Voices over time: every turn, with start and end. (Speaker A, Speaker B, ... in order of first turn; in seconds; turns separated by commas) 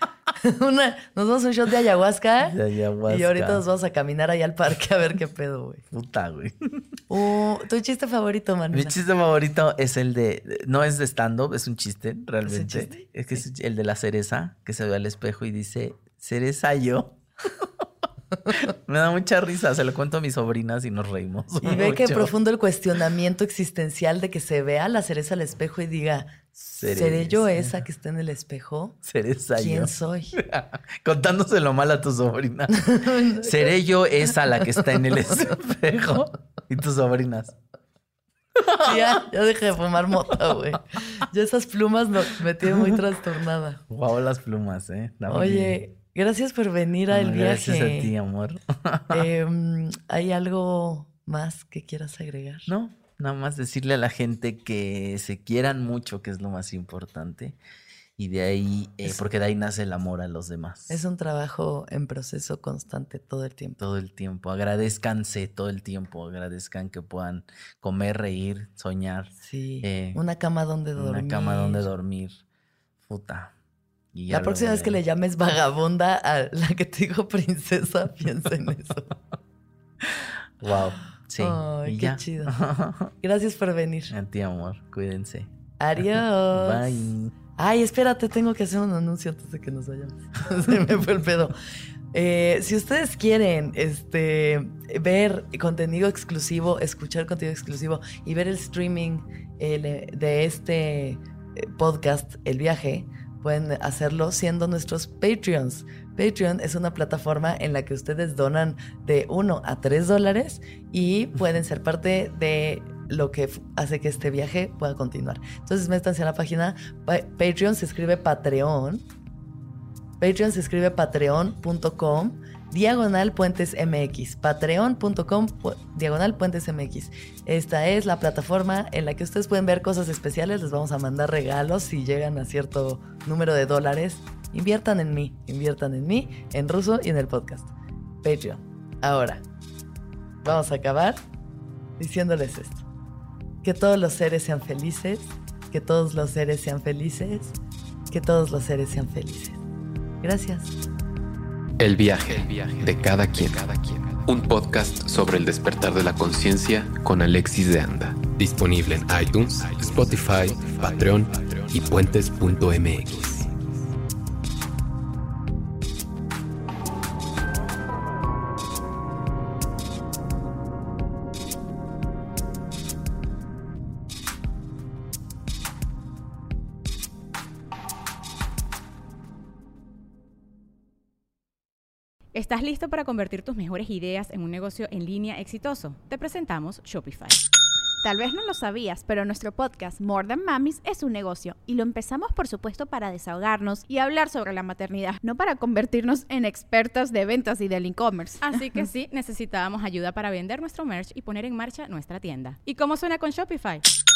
Speaker A: 0.4-5.8, Speaker B: 2.4-3.6, Speaker B: 5.9-6.8, Speaker A: 7.1-9.0, Speaker B: 8.7-17.8, Speaker A: 12.4-13.4, Speaker B: 18.5-22.3, Speaker A: 21.6-29.0, Speaker B: 26.8-27.7, Speaker B: 29.0-37.6, Speaker A: 29.6-30.3, Speaker A: 32.8-33.8, Speaker A: 34.3-35.5, Speaker B: 38.6-39.2, Speaker A: 38.8-43.8, Speaker B: 40.3-40.8, Speaker B: 42.6-43.0, Speaker B: 43.9-45.8, Speaker A: 45.3-48.1, Speaker B: 47.1-49.3, Speaker A: 49.1-52.7, Speaker B: 52.7-57.6, Speaker B: 58.2-61.0, Speaker A: 60.9-63.8, Speaker B: 63.8-70.2, Speaker A: 69.4-71.9, Speaker B: 71.0-72.4, Speaker B: 73.0-73.5, Speaker B: 74.1-75.0, Speaker A: 74.3-79.2, Speaker B: 80.1-83.1, Speaker A: 81.4-82.6, Speaker A: 83.2-84.1, Speaker B: 84.1-85.5, Speaker A: 85.8-91.5, Speaker B: 86.0-87.3, Speaker A: 92.1-119.0, Speaker A: 120.2-139.4, Speaker A: 140.4-141.2, Speaker A: 142.0-142.8, Speaker A: 143.6-147.6, Speaker A: 148.1-149.6, Speaker A: 150.2-150.7, Speaker C: 151.8-163.5, Speaker D: 182.3-187.4, Speaker E: 188.0-198.4, Speaker D: 198.4-203.8